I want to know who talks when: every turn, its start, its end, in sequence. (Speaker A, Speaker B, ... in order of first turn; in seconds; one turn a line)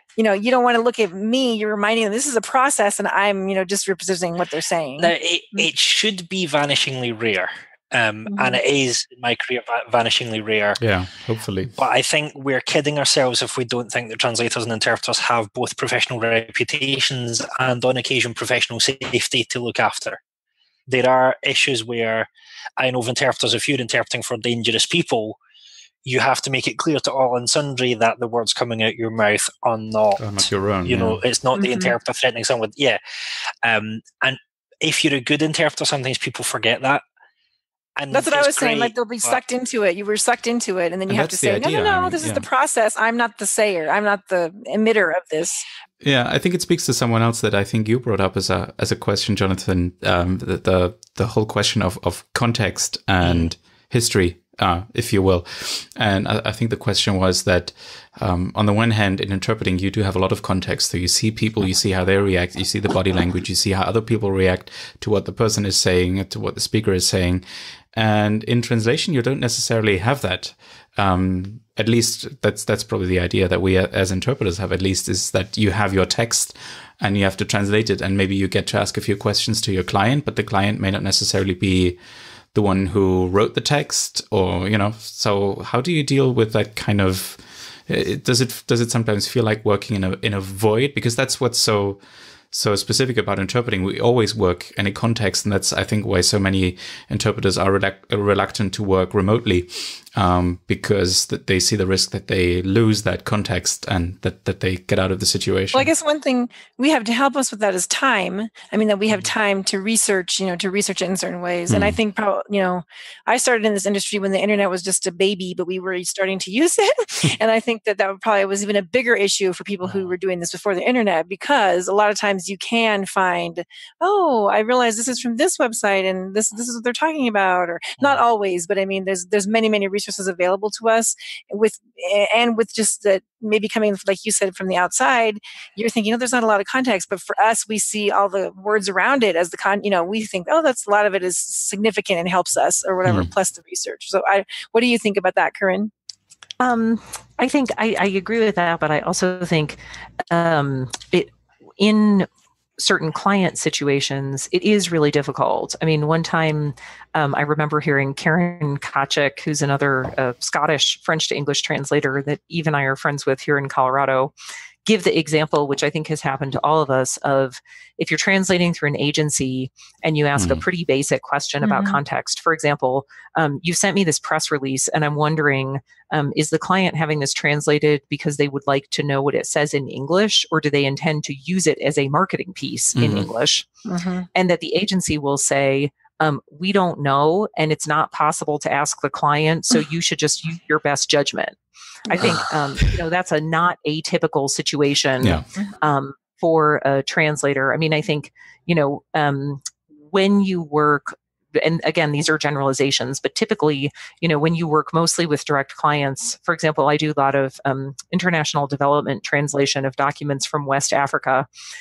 Speaker A: 0.1-5.1
Speaker B: 5.0-10.8
Speaker A: 8.3-8.6
Speaker C: 10.8-11.8
Speaker B: 11.7-20.2
Speaker B: 20.9-25.4
Speaker B: 26.0-33.0
Speaker C: 30.2-31.2
Speaker A: 31.5-31.9
Speaker B: 33.6-37.0
Speaker B: 38.0-39.4
Speaker A: 38.1-45.6
Speaker C: 41.1-42.5
Speaker C: 46.0-82.0
Speaker B: 53.2-53.5
Speaker C: 82.5-105.9
Speaker A: 105.7-145.9
Speaker C: 111.7-112.0
Speaker C: 143.1-143.3
Speaker D: 146.6-149.8
Speaker D: 150.3-164.3
Speaker D: 164.8-183.7
Speaker C: 170.3-170.6
Speaker A: 171.6-172.0
Speaker C: 182.9-183.3
Speaker A: 183.8-184.3
Speaker D: 184.3-211.5
Speaker A: 192.1-192.4
Speaker C: 195.2-195.4